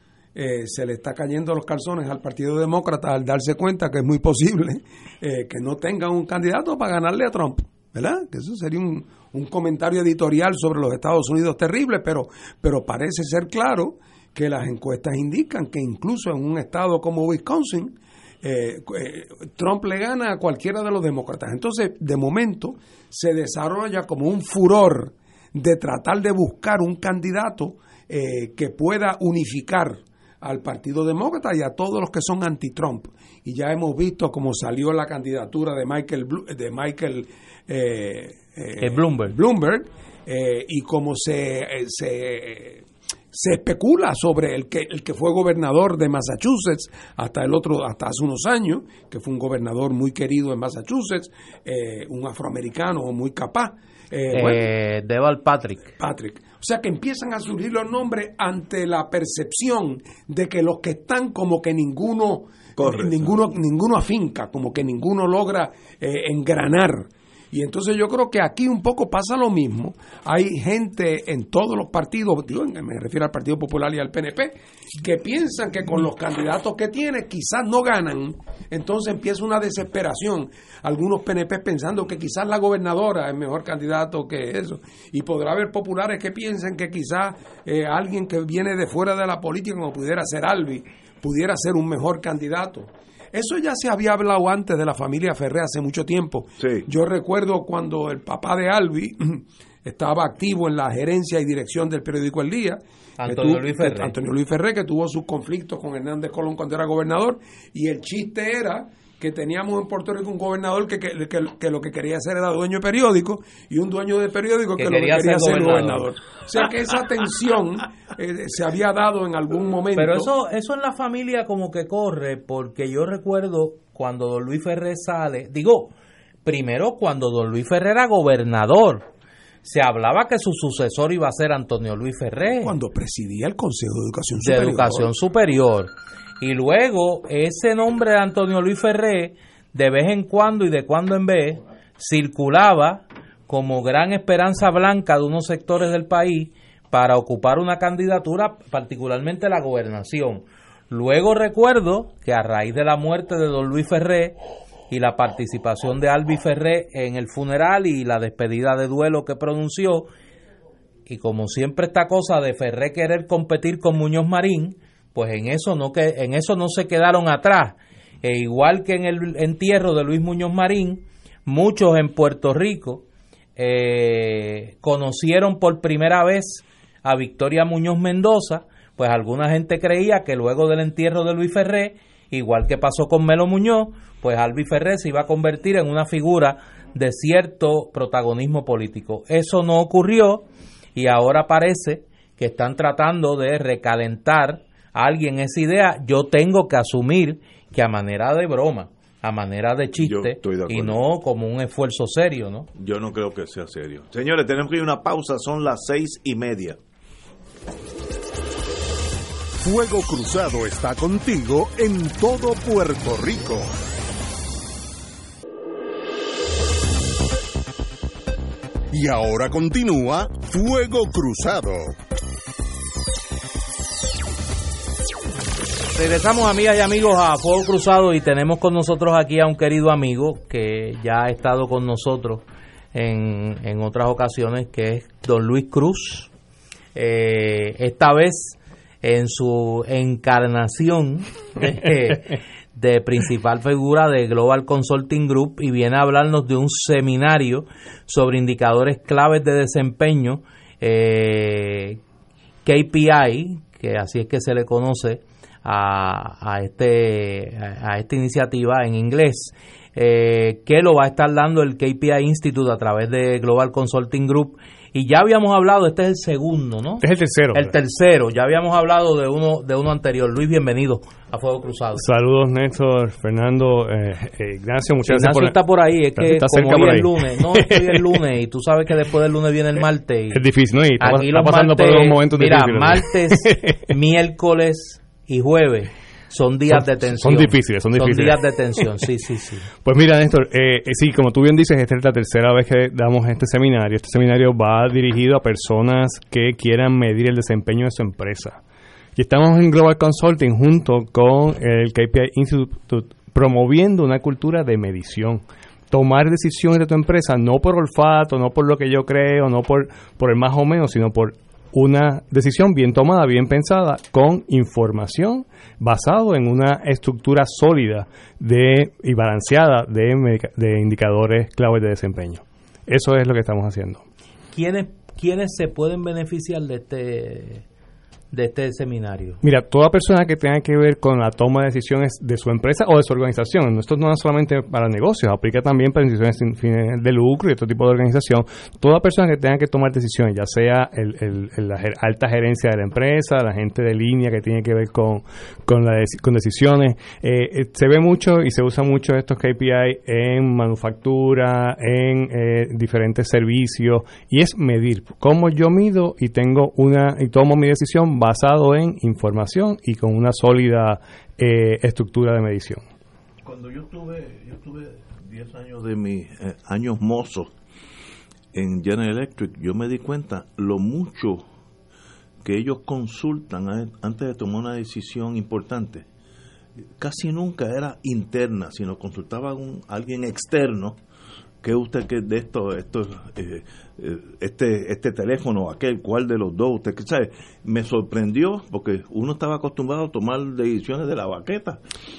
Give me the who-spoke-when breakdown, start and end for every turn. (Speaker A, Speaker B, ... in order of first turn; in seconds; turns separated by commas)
Speaker A: 0.3-54.7, Speaker B: 38.8-39.4, Speaker B: 54.3-55.9, Speaker A: 56.0-120.3, Speaker C: 62.8-63.4, Speaker C: 96.6-96.9, Speaker B: 103.2-104.1, Speaker B: 114.8-116.1, Speaker B: 120.0-125.9, Speaker B: 126.5-129.1, Speaker B: 129.6-132.7, Speaker A: 132.6-135.1, Speaker B: 134.4-154.4, Speaker B: 154.9-160.1, Speaker B: 161.1-173.1, Speaker B: 173.6-202.7, Speaker C: 200.0-201.0, Speaker C: 202.8-206.8, Speaker D: 209.6-213.8, Speaker D: 218.9-222.0, Speaker B: 225.9-236.3, Speaker B: 236.9-252.0, Speaker B: 252.7-272.1, Speaker E: 267.0-267.7, Speaker E: 272.0-275.6, Speaker B: 275.1-280.4, Speaker E: 276.2-278.2, Speaker E: 280.3-283.9, Speaker B: 281.0-289.7, Speaker E: 286.7-289.0, Speaker E: 289.8-298.6, Speaker E: 299.2-324.0, Speaker B: 324.5-327.6, Speaker B: 328.3-329.4, Speaker E: 329.4-362.9, Speaker C: 363.4-367.5, Speaker C: 368.5-371.4, Speaker C: 372.4-376.1, Speaker C: 377.0-381.0, Speaker C: 381.6-391.8